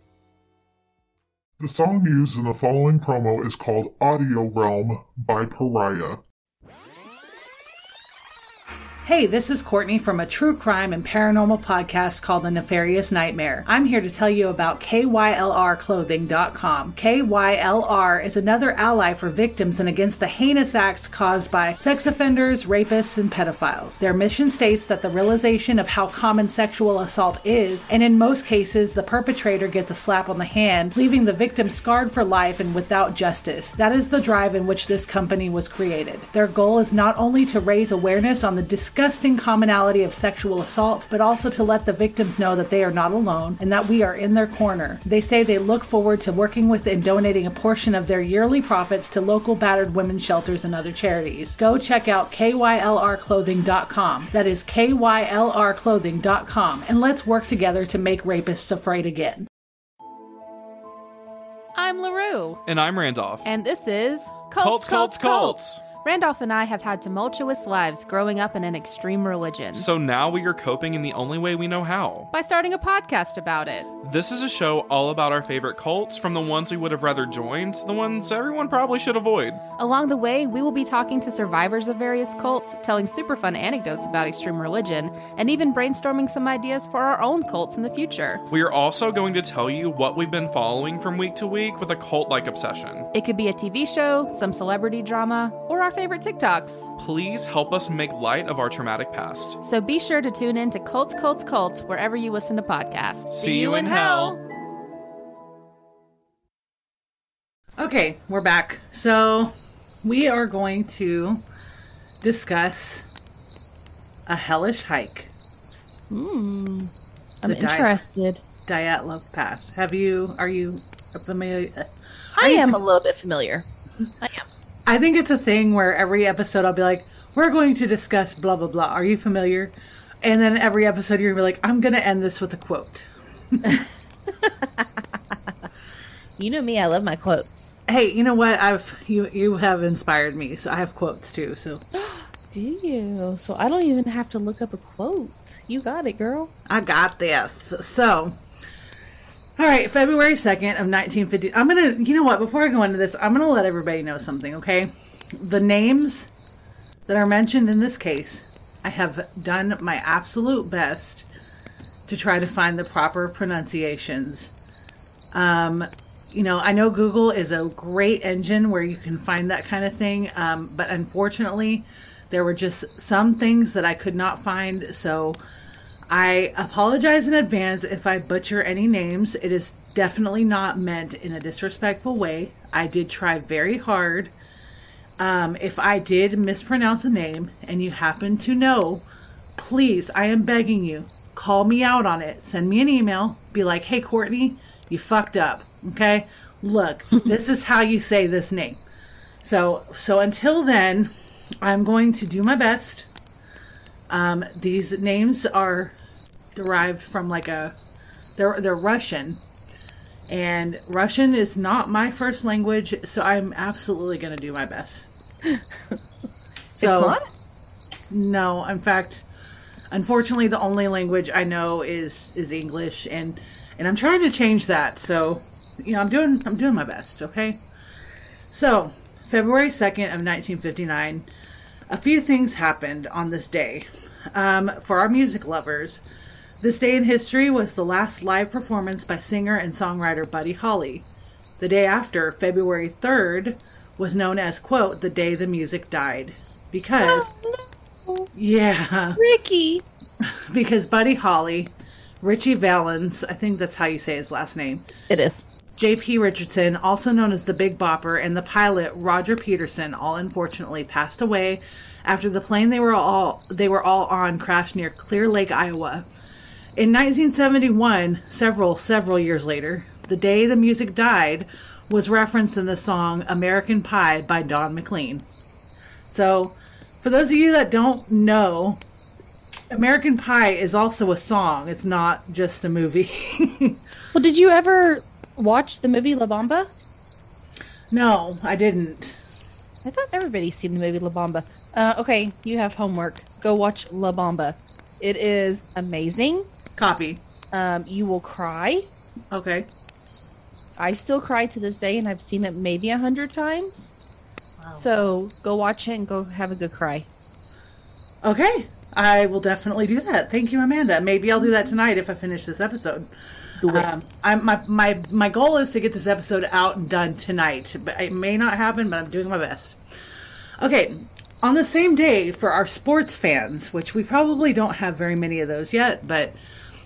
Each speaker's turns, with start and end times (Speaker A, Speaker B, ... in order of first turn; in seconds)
Speaker A: 1.6-6.2
Speaker B: 9.0-59.5, 107.8-111.4, 112.2-113.0, 114.3-115.3, 117.4-118.0, 118.6-122.8, 124.8-133.8, 137.9-141.8, 146.7-148.4, 149.6-156.3, 157.1-161.2, 162.1-164.5, 165.3-175.4, 176.1-184.3, 185.2-189.0, 189.6-198.8, 199.4-203.1, 204.1-205.9, 206.5-207.7, 208.4-209.4, 210.3-215.1, 216.8-217.2, 218.1-219.2, 219.9-227.6, 228.5-231.3, 231.9-236.0, 236.6-241.1, 241.6-247.3, 248.3-249.2, 250.2-254.8, 255.8-266.1, 266.8-275.2, 276.1-278.8, 279.7-283.8, 287.9-289.2, 296.8-297.2, 299.3-299.7, 308.2-313.1, 313.7-319.8, 320.6-326.4
Speaker C: 61.8-62.6, 63.4-69.9, 72.3-73.9, 79.8-88.4, 93.1-96.9, 99.6-104.4
Speaker D: 62.6-63.5, 64.6-65.8, 69.7-72.3, 74.0-79.6, 88.5-93.1, 97.0-99.6, 103.3-104.4
Speaker E: 116.1-116.9, 117.4-118.4, 122.4-123.6, 124.2-124.5, 136.4-137.7, 141.9-146.5, 216.8-217.3, 247.0-248.3, 249.2-249.8, 255.1-255.4, 284.1-286.7, 289.8-296.5, 297.5-298.9, 300.8-303.9, 304.8-307.1, 313.6-313.9